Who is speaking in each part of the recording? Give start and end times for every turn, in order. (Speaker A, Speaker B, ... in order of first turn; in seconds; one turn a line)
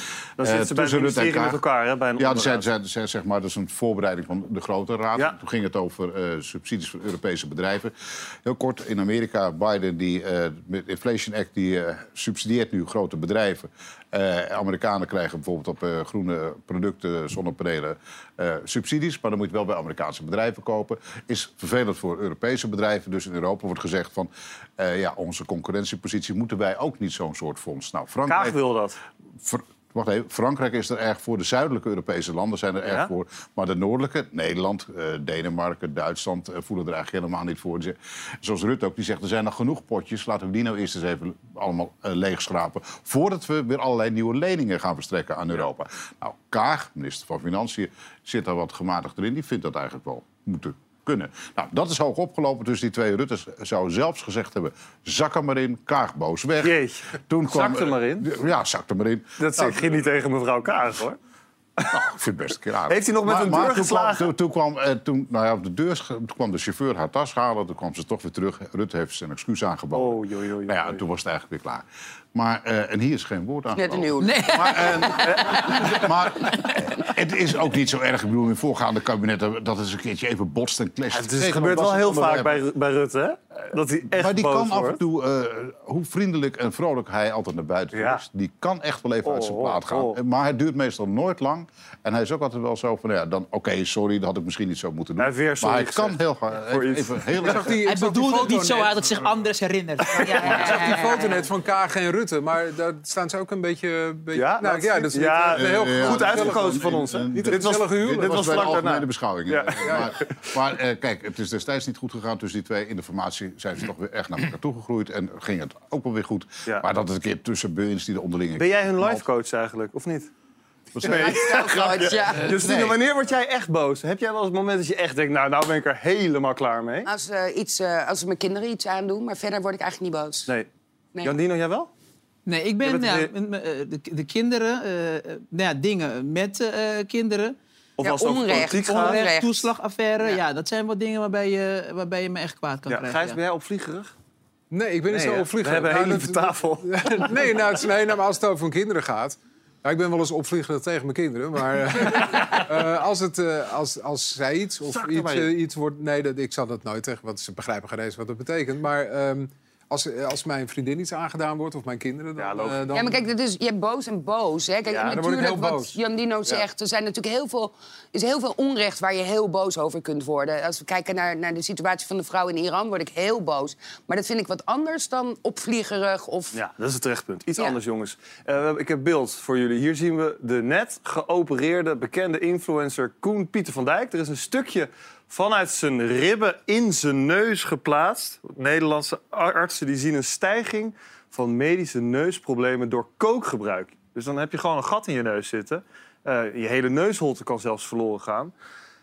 Speaker A: 0.4-1.6
Speaker B: 0.4-2.7
Speaker A: 2.2-28.6
Speaker B: 28.3-29.0
Speaker A: 29.4-56.8
Speaker B: 32.8-33.1
Speaker B: 56.6-58.3
Speaker A: 57.3-59.9
Speaker B: 59.4-61.2
Speaker A: 61.9-82.6
Speaker B: 62.9-64.3
Speaker B: 69.9-71.0
Speaker C: 73.7-75.0
Speaker D: 74.2-76.5
Speaker B: 81.1-85.0
Speaker A: 84.1-97.8
Speaker B: 87.9-88.2
Speaker B: 89.2-90.2
Speaker B: 95.2-97.7
Speaker E: 97.4-99.0
Speaker D: 97.8-101.2
Speaker E: 100.3-108.8
Speaker B: 104.3-110.5
Speaker A: 105.5-119.2
Speaker E: 109.8-110.2
Speaker B: 118.6-120.3
Speaker A: 120.9-121.6
Speaker C: 121.0-122.6
Speaker B: 121.0-127.1
Speaker A: 122.3-123.0
Speaker C: 127.0-130.5
Speaker B: 131.2-131.9
Speaker D: 132.4-137.6
Speaker B: 132.8-133.3
Speaker B: 138.0-139.2
Speaker C: 138.0-139.6
Speaker D: 138.9-143.4
Speaker B: 142.9-144.1
Speaker E: 144.7-163.2
Speaker B: 145.1-147.5
Speaker B: 152.1-152.8
Speaker B: 154.8-155.5
Speaker B: 162.4-162.9
Speaker C: 162.9-176.6
Speaker B: 164.9-165.2
Speaker E: 165.1-165.9
Speaker B: 176.5-198.5